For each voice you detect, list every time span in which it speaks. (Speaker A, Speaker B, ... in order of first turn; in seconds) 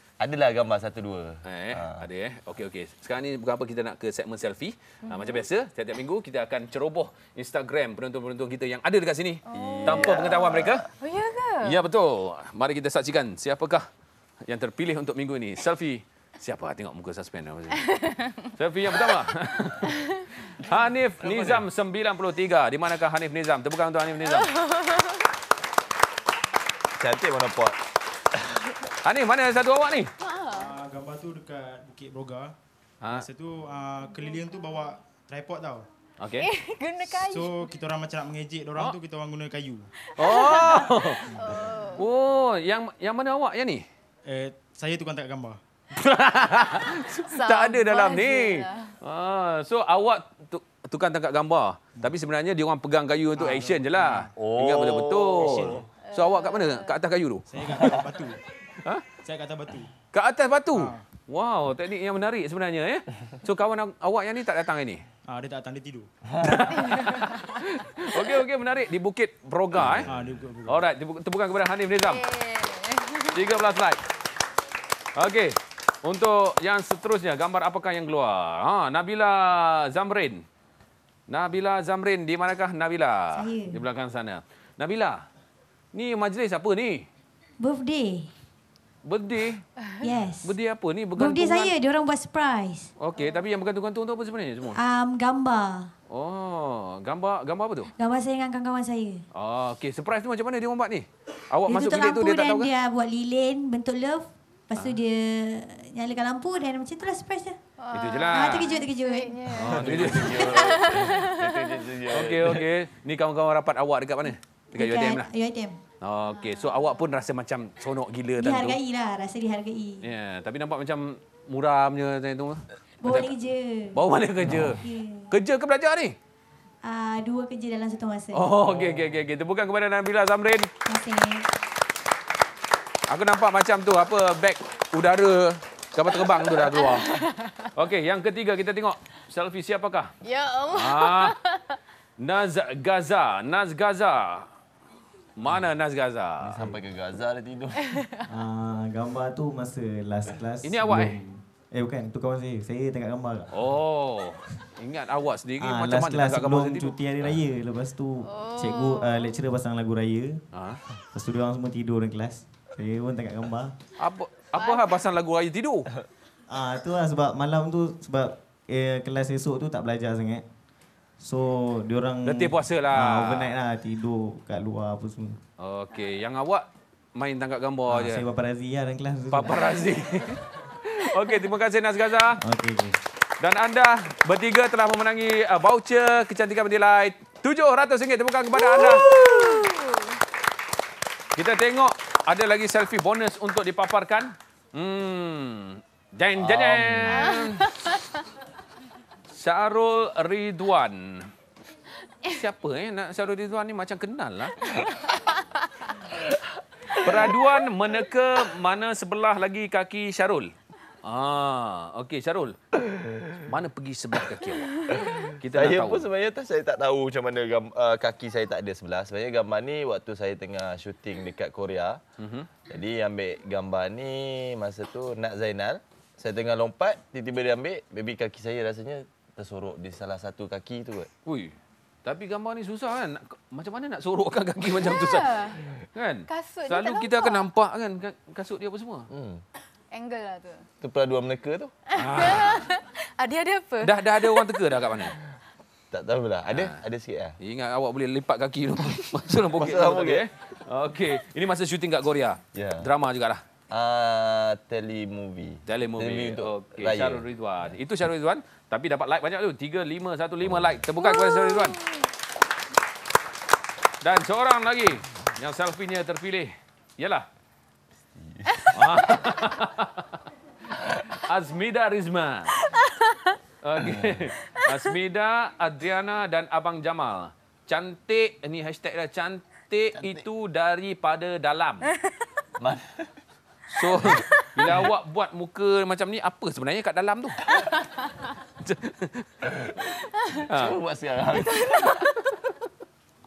Speaker A: 0.2-2.0, 9.5-10.9, 21.2-21.6, 27.0-27.8, 54.3-55.8, 57.8-58.1, 69.8-70.4, 109.6-112.6, 146.4-148.0, 196.4-197.3, 212.8-213.2, 214.9-222.0, 222.7-231.1, 239.1-239.4, 240.8-241.7, 245.9-247.3, 249.5-250.3, 252.5-252.9, 253.7-257.2, 268.3-268.6, 273.8-274.2, 279.9-280.2, 282.6-283.1, 290.5-291.9
Speaker B: 1.4-10.8, 11.6-13.8, 14.4-17.9, 18.5-24.5, 29.0-30.1, 33.0-33.3, 36.2-36.5, 40.2-43.8, 45.9-58.0, 60.1-65.0, 66.4-70.1, 70.6-72.2, 73.3-74.0, 75.2-80.4, 81.3-85.2, 85.9-87.0, 89.0-89.6, 90.4-91.7, 93.0-94.8, 96.1-97.9, 99.3-102.7, 107.9-108.7, 109.5-111.0, 112.1-115.2, 116.0-118.8, 120.0-123.3, 123.9-126.2, 128.3-130.7, 133.1-137.2, 137.7-140.1, 140.7-141.3, 142.2-144.5, 145.4-146.7, 150.6-151.2, 153.5-157.0, 160.5-160.8, 164.0-165.9, 172.2-173.5, 175.6-178.3, 179.3-182.4, 183.4-189.1, 191.3-197.7, 199.3-201.3, 202.3-204.9, 206.9-212.6, 213.5-214.9, 215.4-216.0, 222.2-222.5, 231.2-239.1, 241.9-242.7, 243.8-245.2, 246.5-246.8, 247.4-253.4, 255.7-261.8, 264.0-267.3, 268.7-270.2, 271.1-272.5, 273.6-281.9, 283.7-287.5, 288.6-289.3, 290.5-290.8
Speaker C: 5.0-5.4, 9.5-10.3, 11.0-11.8, 17.8-18.5, 19.8-20.3, 24.4-25.3, 30.2-30.7, 36.4-37.7, 40.0-42.0, 47.3-48.9, 56.0-57.0, 66.7-67.4, 72.1-73.4, 93.2-93.4, 107.8-111.8, 116.4-116.9, 136.2-137.7, 140.2-141.8, 147.9-148.2, 158.2-159.4, 164.5-164.9, 188.5-190.2, 197.1-198.2, 204.7-205.4, 214.7-215.0, 234.7-235.6, 236.3-237.5, 239.9-240.6, 241.9-244.6, 261.0-262.0, 272.7-273.3, 291.3-292.1
Speaker D: 30.5-32.5, 33.1-35.9, 37.1-39.9, 44.2-45.6, 53.4-54.3, 55.4-55.9, 57.5-58.4, 59.2-59.9, 60.7-61.0, 65.3-66.1, 70.0-70.8
Speaker E: 83.3-83.8, 87.6-88.3, 90.0-90.5, 91.1-92.9, 94.7-95.9, 98.0-99.2, 101.7-107.6, 108.3-109.4, 114.7-115.8, 118.4-120.0, 123.0-125.3, 126.8-128.7, 130.8-131.5
Speaker F: 148.3-153.5, 155.6-160.4, 161.1-163.7, 166.5-170.4, 171.2-175.4, 177.9-179.6, 182.4-183.0